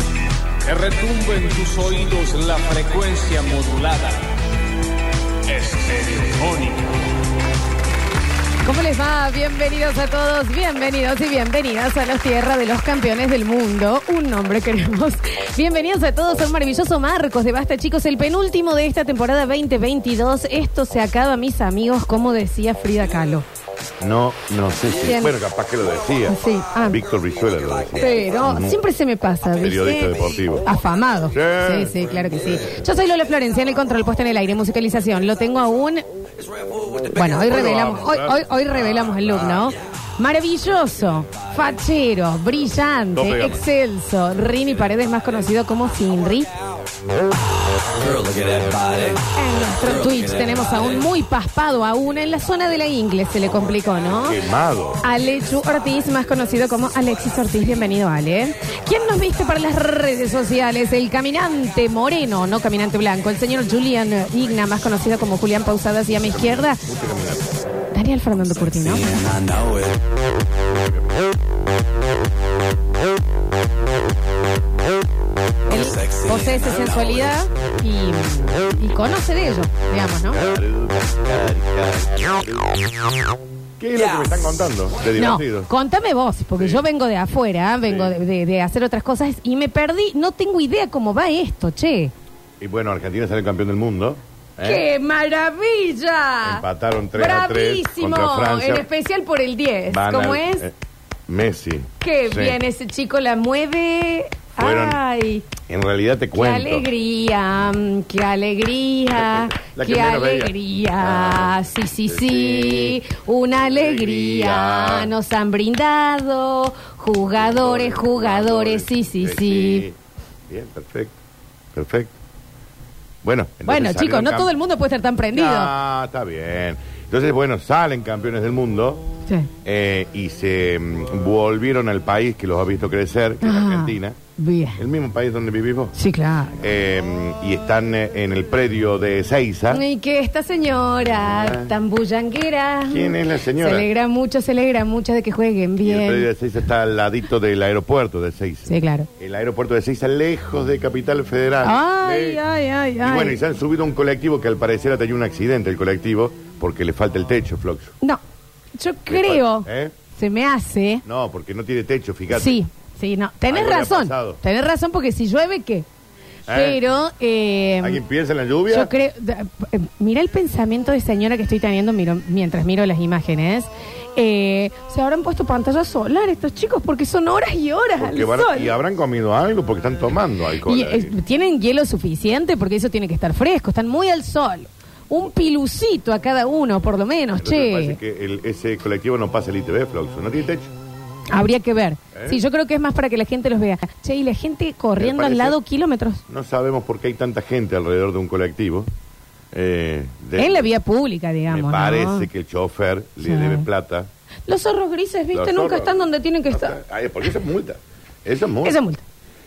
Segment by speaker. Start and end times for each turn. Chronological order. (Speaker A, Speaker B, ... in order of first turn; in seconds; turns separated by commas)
Speaker A: 0.6-4.3, Speaker A: 5.5-7.0, Speaker B: 8.6-23.4, Speaker C: 24.0-28.8, Speaker B: 24.9-25.3, Speaker B: 26.2-27.0, Speaker B: 27.9-36.0, Speaker C: 29.6-30.7, Speaker C: 31.3-32.0, Speaker B: 37.1-46.5, Speaker C: 37.4-39.7, Speaker C: 43.1-43.6, Speaker A: 48.0-49.2, Speaker B: 49.3-54.4, Speaker C: 54.2-55.0, Speaker B: 55.0-66.8, Speaker C: 66.5-67.5, Speaker B: 67.9-69.3, Speaker A: 69.1-69.9, Speaker C: 70.7-71.1, Speaker B: 75.7-80.4, Speaker C: 80.3-82.6, Speaker C: 83.8-85.7, Speaker B: 85.1-92.1, Speaker C: 86.6-86.8, Speaker C: 87.8-88.2, Speaker C: 92.6-94.9, Speaker B: 94.6-100.7, Speaker C: 96.4-98.8, Speaker C: 99.9-100.7, Speaker C: 101.3-102.6, Speaker B: 102.0-105.5, Speaker C: 104.6-105.0, Speaker C: 105.7-106.9, Speaker B: 106.3-119.9, Speaker C: 109.1-113.0, Speaker C: 113.6-115.1, Speaker C: 117.3-120.0, Speaker C: 120.5-121.2, Speaker C: 121.7-122.1, Speaker C: 123.2-124.5, Speaker B: 123.7-125.7, Speaker C: 125.3-129.0, Speaker C: 129.6-134.2, Speaker B: 133.4-134.8, Speaker C: 134.8-135.9, Speaker B: 135.9-136.6, Speaker C: 136.6-139.8, Speaker B: 139.7-146.3, Speaker C: 141.3-141.7, Speaker C: 142.8-143.9, Speaker C: 145.8-152.4, Speaker B: 148.6-149.1, Speaker B: 151.6-153.4, Speaker C: 153.0-157.9, Speaker B: 158.7-161.0, Speaker C: 159.1-159.9, Speaker C: 161.0-162.6, Speaker B: 162.3-165.8, Speaker C: 163.5-164.4, Speaker C: 166.5-166.9, Speaker B: 166.5-168.0, Speaker C: 167.8-168.9, Speaker B: 168.7-178.7, Speaker C: 178.0-181.1, Speaker B: 180.6-188.0, Speaker C: 187.4-190.7, Speaker B: 191.3-196.2, Speaker C: 192.1-192.4, Speaker C: 194.9-195.6, Speaker C: 196.3-198.9, Speaker C: 199.5-200.7, Speaker B: 200.4-202.3, Speaker C: 201.5-204.1, Speaker B: 203.2-203.7, Speaker B: 204.5-206.8, Speaker C: 205.3-208.8, Speaker B: 208.6-209.0